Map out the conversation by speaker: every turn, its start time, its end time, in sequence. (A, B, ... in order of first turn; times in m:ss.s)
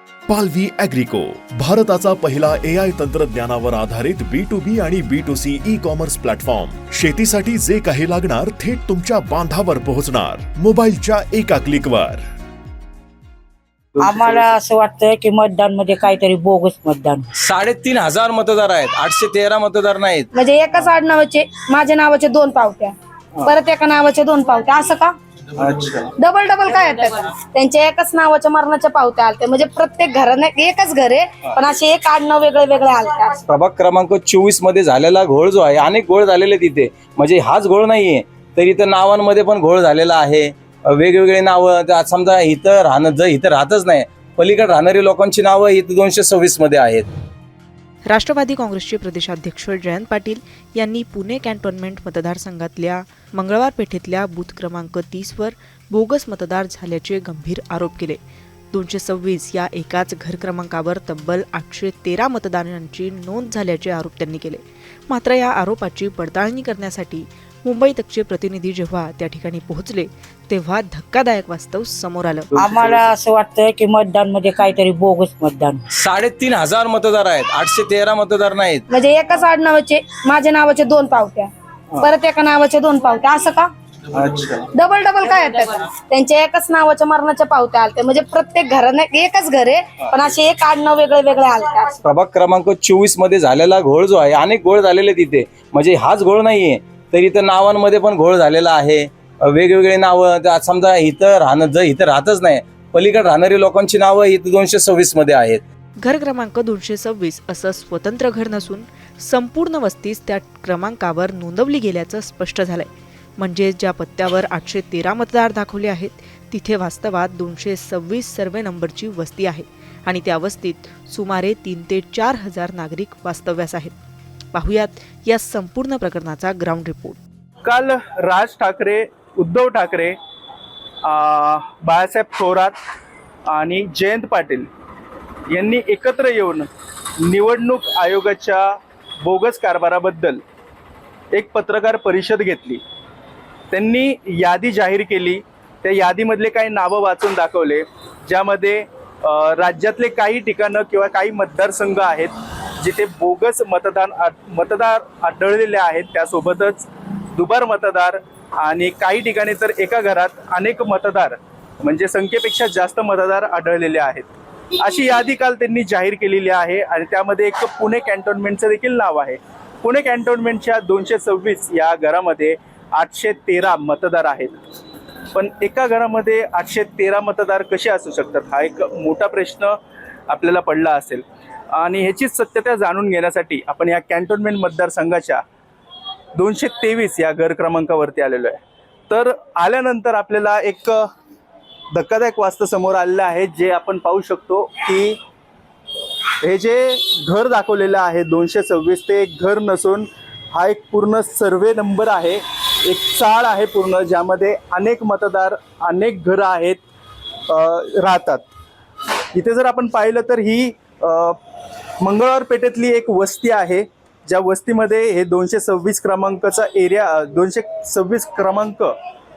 0:00.3-0:12.2 A
0:14.0-0:14.5 B
0:14.0-0:17.2 C
0:17.4-0:20.3 D
0:20.3-0:25.2 E
0:25.6-0:26.1 B
0:26.2-0:33.4 E
0:33.5-0:47.1 D
0:48.1-0:58.2 F
0:58.7-1:12.5 F
1:12.6-1:13.0 B
1:12.6-1:15.8 C
1:16.0-1:18.8 D
1:18.9-1:23.7 E
1:24.1-1:24.7 B
1:24.7-1:32.0 E
1:32.0-1:45.6 D
1:46.0-2:03.9 F
2:04.5-2:07.2 F
2:07.6-2:10.2 B
2:11.0-2:12.8 B
2:13.5-2:14.7 B
2:15.5-2:16.7 B
2:17.2-2:20.4 B
2:21.3-2:22.8 B
2:23.7-2:44.3 B
2:44.8-2:54.6 B
2:55.3-2:59.7 B
3:00.3-3:05.4 B
3:06.3-3:11.0 B
3:11.9-3:15.2 B
3:16.4-3:26.8 B
3:27.5-3:28.5 B
3:29.3-3:31.4 B
3:32.0-3:38.9 B